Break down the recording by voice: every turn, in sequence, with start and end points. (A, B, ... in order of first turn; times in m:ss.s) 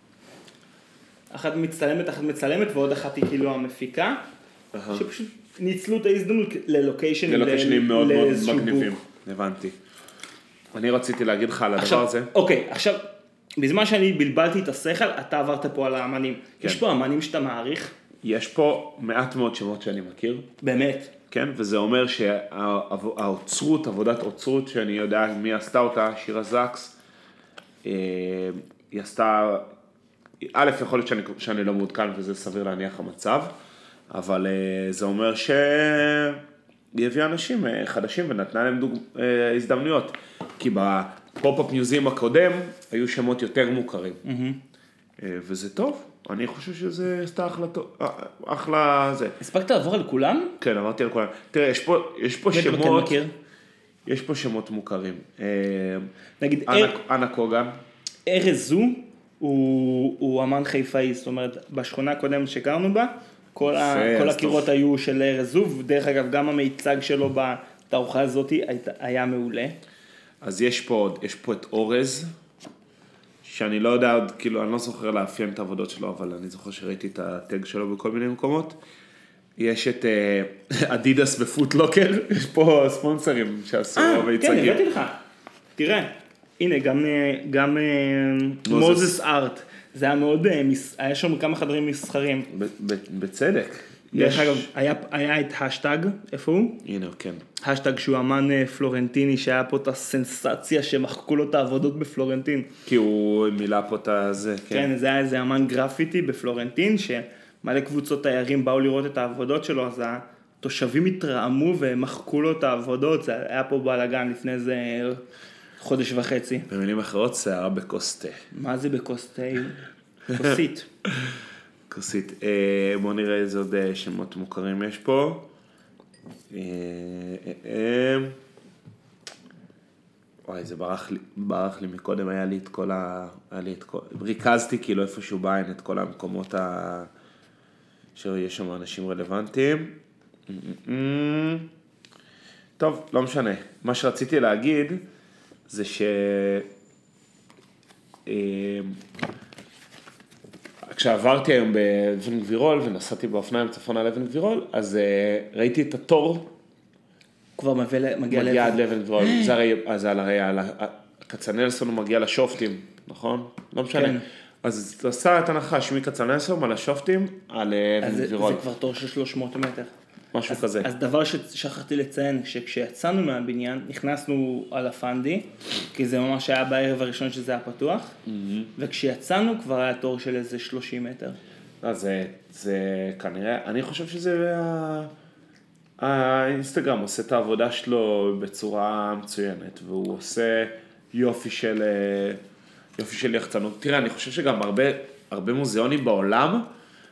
0:01.3-0:04.2 A
0:04.7-0:05.0 B
0:04.9-0:08.9 A
0:07.3-0:09.8 B
0:10.7-0:12.3 B
0:11.8-0:13.0 A
0:13.6-0:17.9 A
0:18.2-0:20.5 B
0:20.6-0:21.1 A
0:21.3-0:26.9 B
0:27.8-0:29.7 B
0:30.4-0:33.5 B
0:34.1-0:36.4 B
0:36.9-0:44.2 B
0:44.2-0:44.6 A
0:45.2-0:49.4 B
0:49.4-0:50.6 A
0:50.6-0:53.2 B
0:52.5-0:53.3 A
0:54.0-0:56.0 B
0:56.4-0:56.9 A
0:56.7-0:57.7 B
0:58.3-1:09.7 A
1:03.7-1:04.7 B
1:10.4-1:12.3 B
1:13.4-1:18.8 B
1:19.6-1:24.8 B
1:24.0-1:25.2 A
1:25.8-1:32.5 A
1:28.6-1:29.2 B
1:32.5-1:34.7 B
1:34.1-1:36.8 A
1:36.8-1:37.4 B
1:37.6-1:42.7 A
1:42.8-1:44.9 B
1:44.7-1:55.2 A
1:55.8-1:56.7 A
1:56.7-1:58.4 B
1:58.5-2:00.9 A
2:01.9-2:05.4 B
2:06.5-2:08.4 B
2:10.4-2:17.1 B
2:18.2-2:20.0 B
2:20.5-2:21.7 B
2:22.8-2:25.0 B
2:25.7-2:26.7 B
2:28.2-2:29.0 B
2:30.8-2:36.5 B
2:37.6-2:39.5 A
2:38.3-2:48.6 B
2:43.9-2:44.2 A
2:48.0-2:49.9 A
2:50.3-2:50.9 B
2:50.5-2:58.2 A
2:58.3-2:58.7 B
2:58.8-3:01.4 A
3:01.8-3:05.1 B
3:06.0-3:12.4 B
3:13.0-3:16.6 B